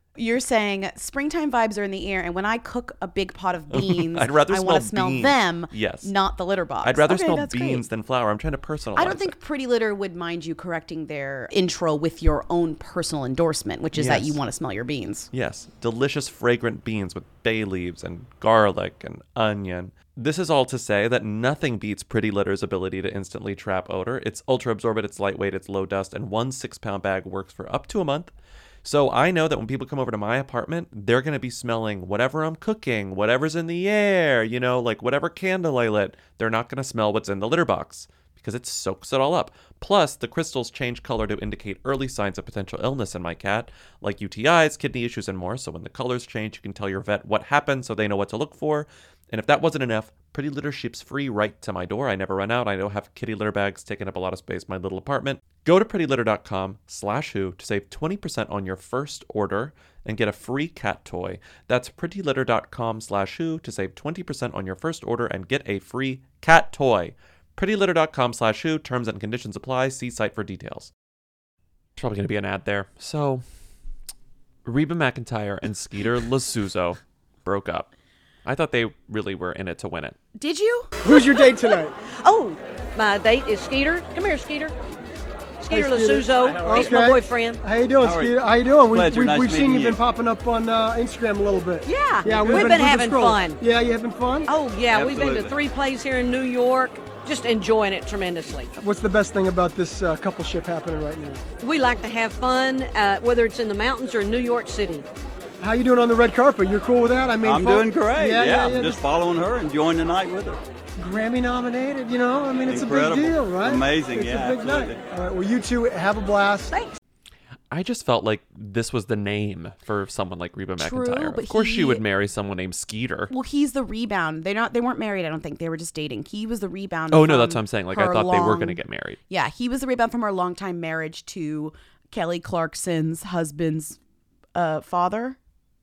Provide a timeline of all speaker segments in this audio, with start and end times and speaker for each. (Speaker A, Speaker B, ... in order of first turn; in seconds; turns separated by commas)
Speaker A: 0.2-7.9, Speaker B: 3.7-6.1, Speaker B: 6.8-9.3, Speaker A: 8.9-15.3, Speaker B: 13.9-14.4, Speaker B: 15.3-28.3, Speaker B: 28.8-70.9, Speaker B: 72.0-73.5, Speaker B: 74.7-77.9, Speaker B: 78.5-80.2, Speaker A: 80.4-81.0, Speaker C: 81.0-81.9, Speaker D: 81.1-81.5, Speaker D: 82.1-84.8, Speaker D: 85.6-87.6, Speaker C: 85.7-94.5, Speaker E: 86.4-86.9, Speaker E: 88.0-90.0, Speaker D: 91.9-93.6, Speaker D: 94.5-98.7, Speaker E: 94.9-95.6, Speaker C: 98.8-101.4, Speaker D: 101.6-105.1, Speaker C: 105.6-109.0, Speaker E: 107.4-110.6, Speaker C: 111.0-116.7, Speaker E: 112.7-115.0, Speaker B: 117.7-123.3, Speaker A: 120.8-122.0, Speaker A: 123.3-134.0, Speaker B: 127.1-129.2, Speaker A: 134.6-135.4